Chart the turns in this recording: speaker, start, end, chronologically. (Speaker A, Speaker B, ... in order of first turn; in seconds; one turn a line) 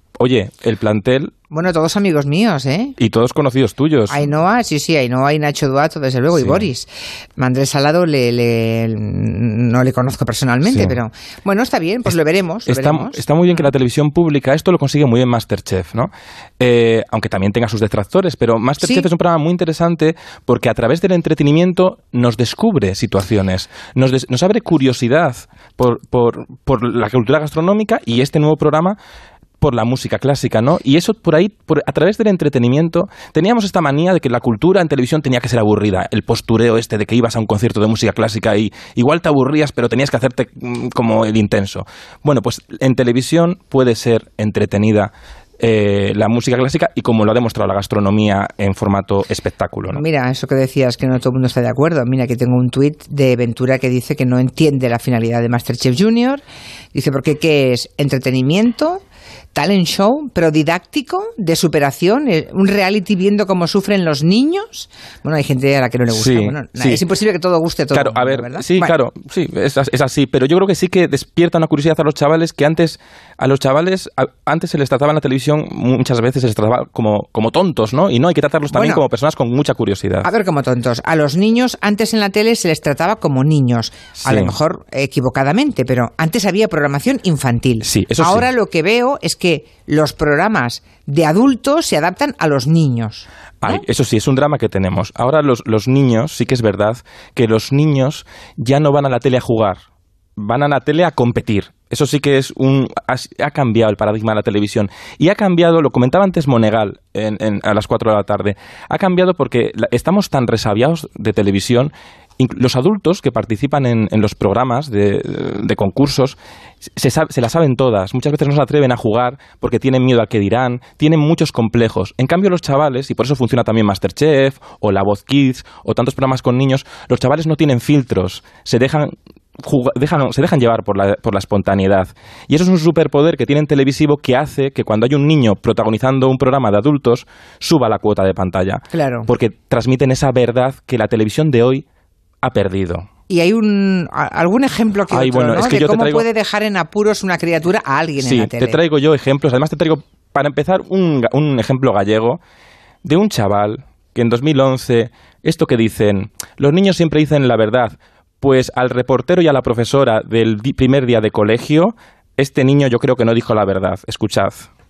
Speaker A: 0.2-1.3
Speaker B: 1.5-3.0
Speaker A: 3.0-4.2
Speaker B: 4.1-13.7
Speaker A: 10.7-11.0
Speaker A: 12.7-29.0
Speaker B: 18.8-19.1
Speaker A: 29.6-50.0
Speaker B: 49.9-59.0
Speaker B: 59.5-68.9
Speaker A: 66.2-67.0
Speaker A: 67.9-80.3
Speaker B: 78.7-79.0
Speaker B: 80.2-93.8
Speaker A: 84.3-84.5
Speaker A: 87.8-88.4
Speaker A: 93.6-99.8
Speaker A: 100.4-116.4
Speaker A: 117.0-141.8
Speaker B: 138.9-139.3
Speaker A: 142.4-143.1
Speaker B: 143.3-148.8
Speaker A: 145.1-146.3
Speaker A: 148.2-152.4
Speaker A: 153.0-164.7